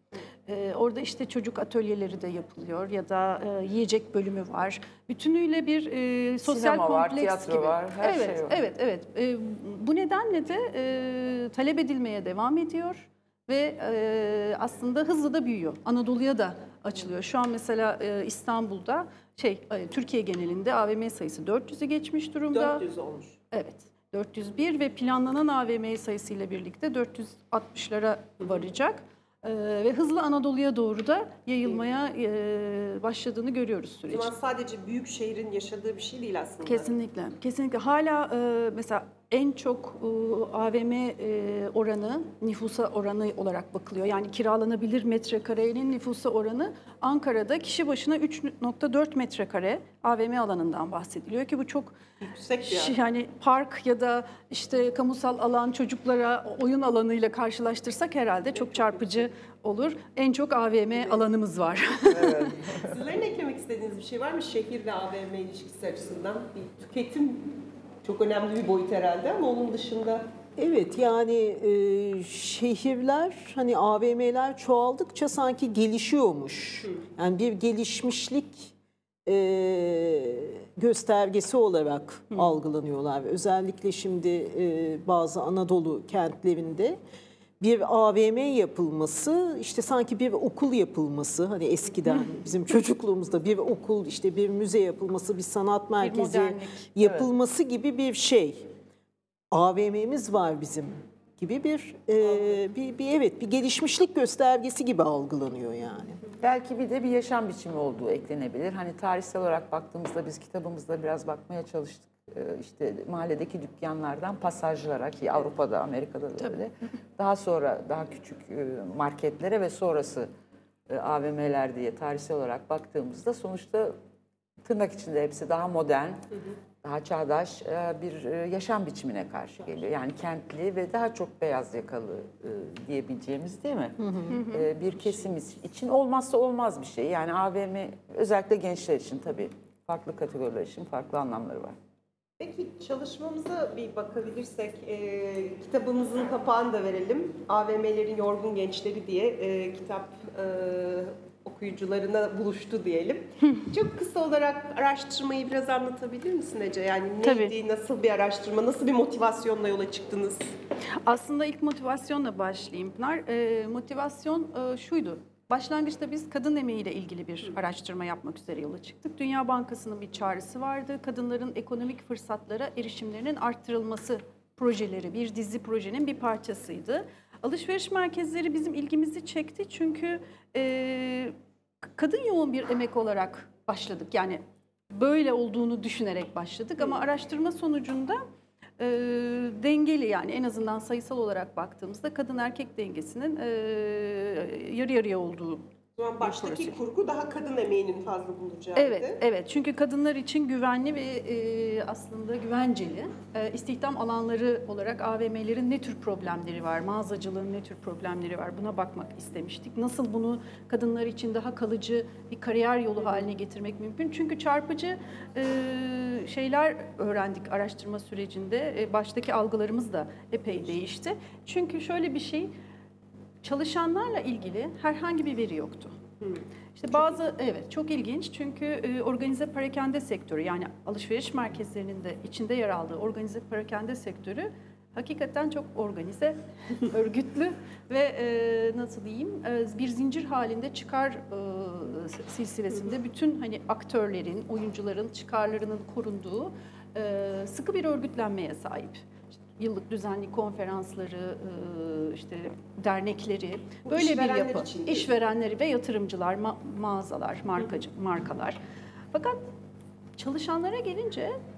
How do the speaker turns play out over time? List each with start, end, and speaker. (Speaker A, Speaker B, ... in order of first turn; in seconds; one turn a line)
Speaker A: 0.5-22.8
Speaker B: 6.4-8.6
Speaker C: 22.5-23.4
Speaker A: 23.5-34.3
Speaker C: 34.1-36.9
Speaker A: 36.6-52.0
Speaker C: 52.2-53.0
Speaker A: 52.6-62.6
Speaker B: 62.1-62.9
Speaker C: 62.8-70.2
Speaker D: 70.6-78.7
Speaker D: 79.2-87.0
Speaker D: 87.6-98.7
Speaker A: 96.0-96.9
Speaker B: 97.0-97.3
Speaker D: 99.5-106.2
Speaker B: 106.4-120.3
Speaker B: 120.9-123.9
Speaker B: 124.6-126.2
Speaker B: 126.8-141.8
Speaker D: 134.0-134.4
Speaker A: 134.3-134.7
Speaker C: 142.4-160.5
Speaker A: 153.4-153.7
Speaker A: 157.2-157.5
Speaker A: 161.0-181.3
Speaker A: 181.9-188.2
Speaker A: 188.8-195.6
Speaker C: 196.0-199.2
Speaker A: 196.2-196.8
Speaker A: 198.8-222.5
Speaker A: 223.4-226.0
Speaker A: 226.7-258.6
Speaker C: 253.8-255.1
Speaker A: 259.1-259.4
Speaker A: 260.2-261.4